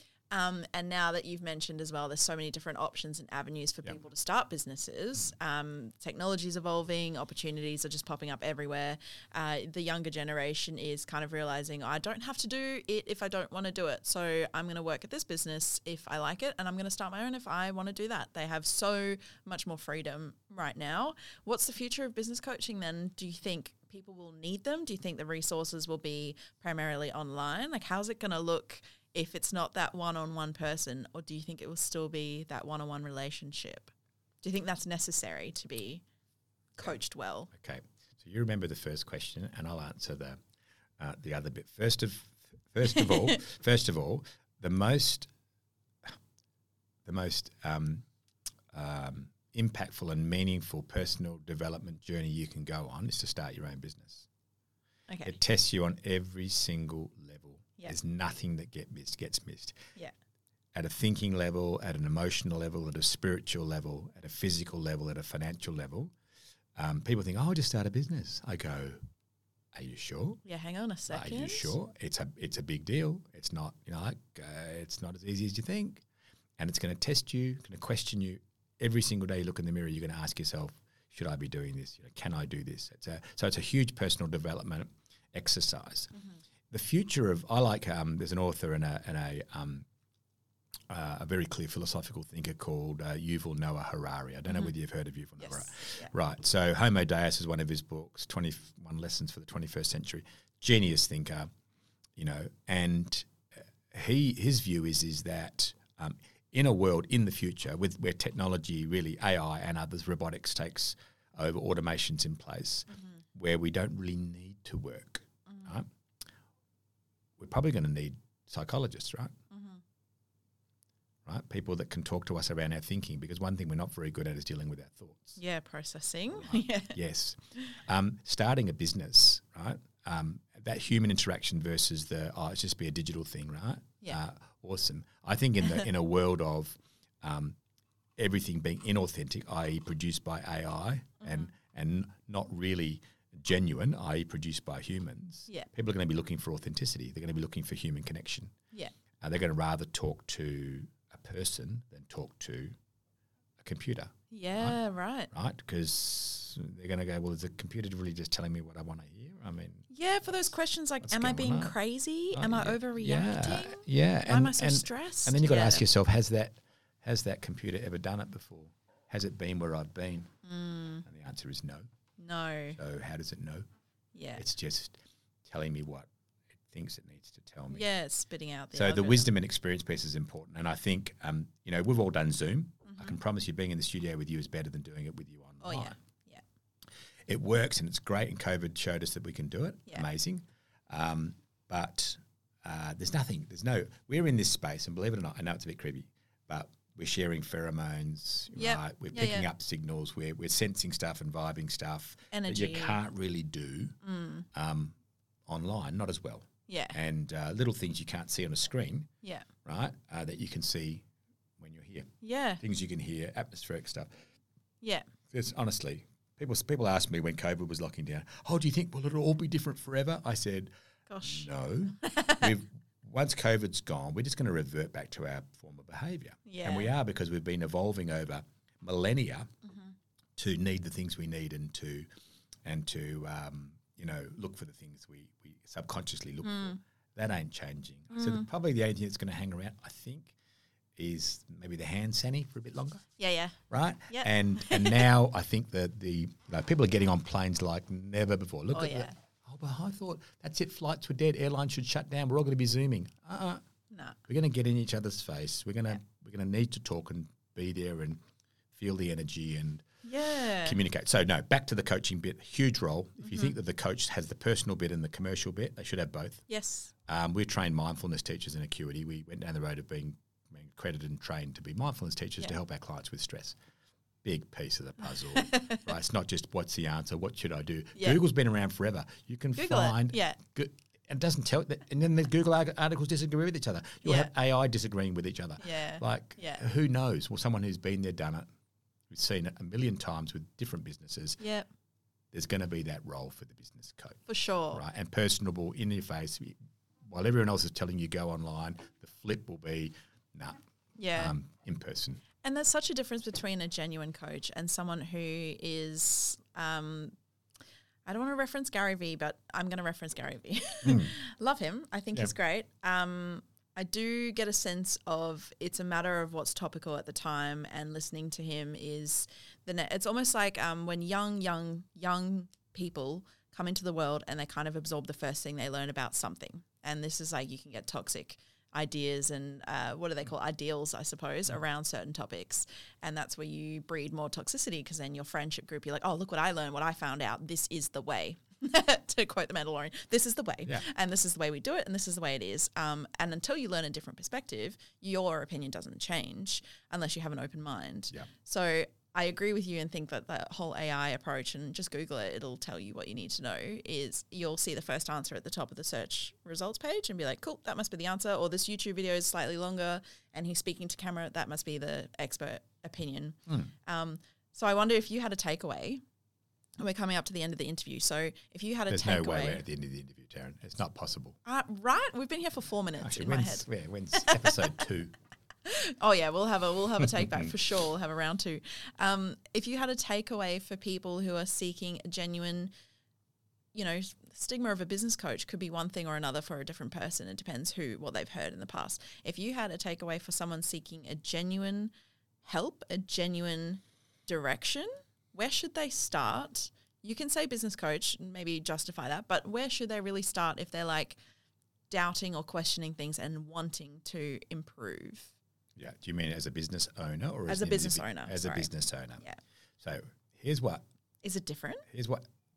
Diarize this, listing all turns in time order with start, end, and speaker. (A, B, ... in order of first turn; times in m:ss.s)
0:00.3-0:33.9 A
0:34.4-0:36.0 A
0:36.8-0:37.5 A
0:37.5-0:40.4 B
0:41.0-0:45.3 B
0:42.9-0:43.4 A
0:47.0-0:48.0 B
0:48.7-0:54.3 B
0:55.1-0:55.4 A
0:55.2-0:59.8 B
1:00.7-1:06.1 B
1:06.8-1:09.0 B
1:09.7-1:10.4 B
1:10.4-1:11.7 A
1:11.1-1:16.0 B
1:16.6-1:26.1 B
1:26.7-1:29.9 B
1:30.9-1:41.5 B
1:35.4-1:36.1 A
1:42.2-1:43.3 B
1:43.9-1:55.9 B
1:55.5-1:55.7 A
1:57.4-1:59.3 B
1:59.5-1:59.8 A
2:01.3-2:05.4 B
2:05.4-2:07.0 A
2:06.3-2:17.6 B
2:18.2-2:28.5 B
2:21.2-2:21.5 A
2:29.2-2:32.8 B
2:33.6-2:34.8 B
2:34.3-2:35.3 A
2:35.3-2:40.3 B
2:39.9-2:45.8 A
2:41.0-2:41.8 B
2:42.3-2:50.3 B
2:50.4-2:51.0 A
2:51.0-2:51.9 B
2:52.2-2:52.8 A
2:52.7-2:53.7 B
2:54.1-2:54.4 A
2:54.4-2:56.1 B
2:56.7-2:57.8 B
2:57.7-2:59.3 A
2:58.7-3:06.0 B
3:02.9-3:03.1 A
3:05.6-3:06.4 A
3:07.3-3:24.0 B
3:18.6-3:19.5 A
3:22.3-3:23.0 A
3:24.0-3:24.4 A
3:24.5-3:25.0 B
3:25.5-3:29.1 B
3:26.7-3:27.0 A
3:29.6-3:31.0 B
3:31.6-3:34.1 B
3:32.2-3:32.6 A
3:35.3-3:40.7 B
3:41.1-3:42.5 A
3:41.2-3:49.5 B
3:46.4-3:46.9 A
3:49.6-3:49.9 A
3:50.4-3:52.1 B
3:52.6-4:00.3 B
3:56.4-3:56.8 A
3:58.1-3:58.5 A
4:01.0-4:03.0 B
4:03.2-4:03.6 A
4:03.7-4:13.6 B
4:04.1-4:05.1 A
4:08.7-4:09.1 A
4:13.9-4:14.2 A
4:14.3-4:18.2 B
4:18.7-4:19.9 B
4:20.0-4:20.8 A
4:20.6-4:26.4 B
4:23.2-4:23.5 A
4:26.5-4:26.9 A
4:27.0-4:33.6 B
4:34.2-4:48.5 B
4:35.3-4:35.8 A
4:39.6-4:40.4 A
4:44.0-4:44.3 A
4:45.6-4:46.6 A
4:49.1-4:51.4 B
4:51.4-4:51.7 A
4:52.3-4:54.2 B
4:54.3-4:54.8 A
4:54.7-5:00.6 B
5:01.0-5:01.4 A
5:01.1-5:02.2 B
5:02.4-5:07.1 A
5:08.0-6:06.0 A
5:10.8-5:11.1 B
6:06.8-6:09.6 A
6:08.9-6:11.4 B
6:11.4-6:14.7 A
6:13.0-6:15.1 B
6:15.6-6:22.7 A
6:17.0-6:17.5 B
6:23.7-6:31.9 A
6:32.4-6:41.2 A
6:41.9-6:45.3 A
6:45.8-6:49.2 B
6:47.5-6:49.4 A
6:49.8-6:50.8 B
6:51.2-6:51.9 A
6:51.9-6:52.2 B